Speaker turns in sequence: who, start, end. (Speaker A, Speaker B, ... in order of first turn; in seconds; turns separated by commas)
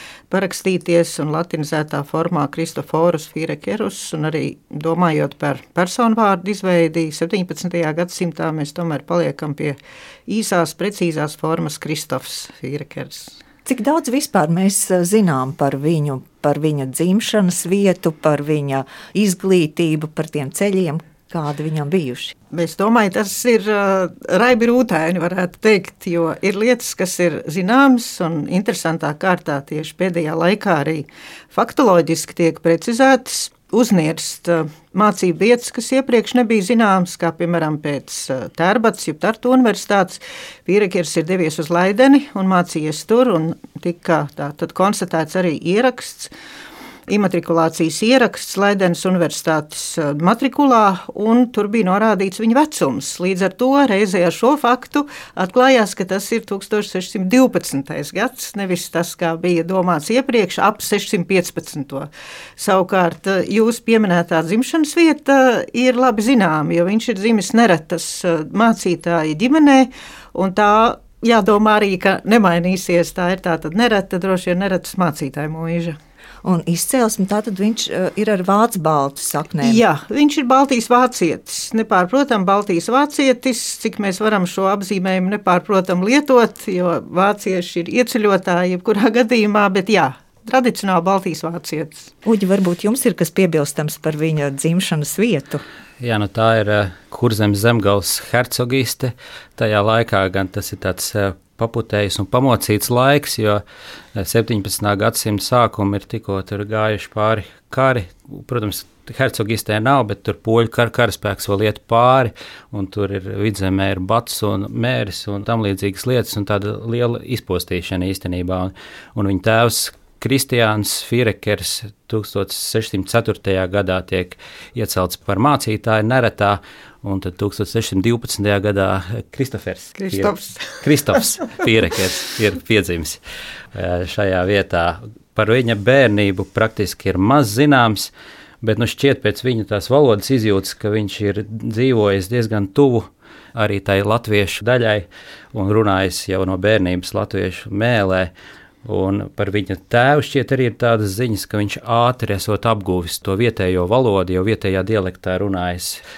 Speaker A: 0.3-13.4, Speaker B: 13.6-22.3, Speaker A: 22.5-46.3, Speaker A: 47.1-76.0, Speaker B: 76.4-79.8, Speaker A: 79.6-92.1, Speaker B: 92.2-95.6, Speaker C: 96.0-103.6, Speaker C: 104.1-133.2, Speaker A: 129.9-130.8, Speaker C: 133.7-138.1, Speaker C: 138.6-148.3, Speaker C: 148.8-156.0